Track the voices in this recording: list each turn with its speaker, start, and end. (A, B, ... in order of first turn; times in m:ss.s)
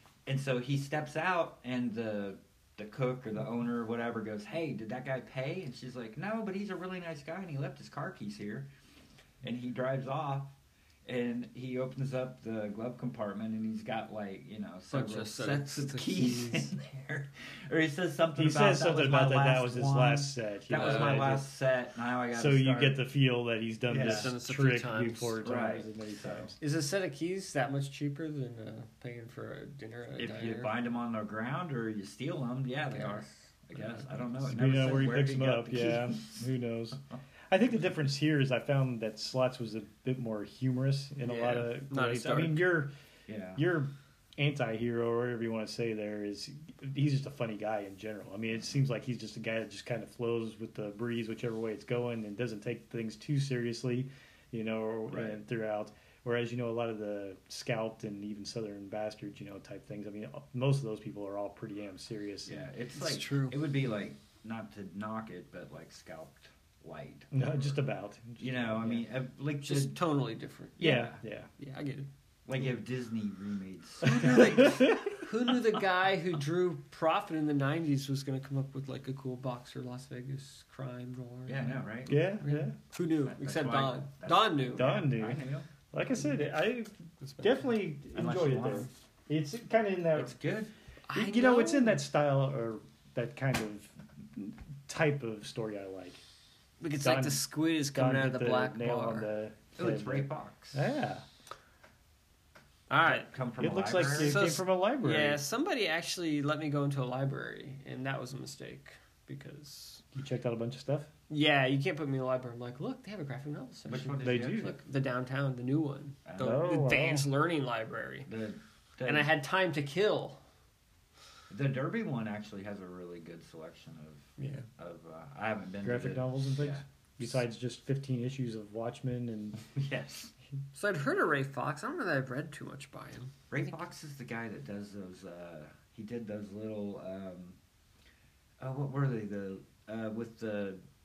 0:00.2-0:08.7 A
0:09.4-0:10.5 A
0:11.0-0:23.0 A
0:14.9-0:16.7 B
0:18.4-0:21.4 C
0:20.7-0:21.2 B
0:22.3-0:26.6 C
0:23.9-0:24.3 A
0:24.0-0:25.4 B
0:25.4-0:26.5 A
0:26.6-0:30.7 B
0:30.2-0:36.5 A
0:32.9-0:34.1 B
0:34.4-0:37.0 C
0:37.5-0:42.9 C
0:41.2-0:42.7 B
0:43.3-0:43.6 A
0:43.6-1:02.7 C
0:55.1-0:55.4 A
1:02.4-1:07.7 A
1:03.0-1:03.6 B
1:07.3-1:09.0 C
1:08.4-1:10.0 A
1:09.6-1:11.0 B
1:10.8-1:11.2 A
1:10.8-1:11.5 C
1:11.6-1:12.1 B
1:12.4-1:15.6 A
1:14.0-1:15.1 C
1:15.2-1:25.0 B
1:21.5-1:22.2 A
1:22.1-1:22.8 C
1:23.2-1:25.7 A
1:24.8-1:30.3 C
1:27.2-1:27.6 B
1:28.1-1:28.9 A
1:30.1-1:30.7 A
1:31.1-1:32.0 B
1:31.1-1:36.2 C
1:36.8-1:39.3 B
1:37.0-1:37.4 C
1:37.9-1:41.2 C
1:39.8-1:40.8 A
1:42.9-1:43.3 B
1:43.0-1:44.4 A
1:43.6-1:45.4 C
1:44.1-1:50.0 B
1:50.1-1:51.1 C
1:51.3-1:58.3 B
1:53.9-1:54.8 A
1:54.2-1:54.7 C
1:56.2-1:56.8 A
1:56.4-1:57.3 C
1:58.2-1:59.3 A
1:59.0-2:00.4 B
2:01.5-2:07.3 A
2:04.4-2:04.6 B
2:05.8-2:09.6 C
2:09.7-2:10.3 A
2:10.7-2:13.3 B
2:13.5-2:17.6 A
2:18.6-2:20.8 A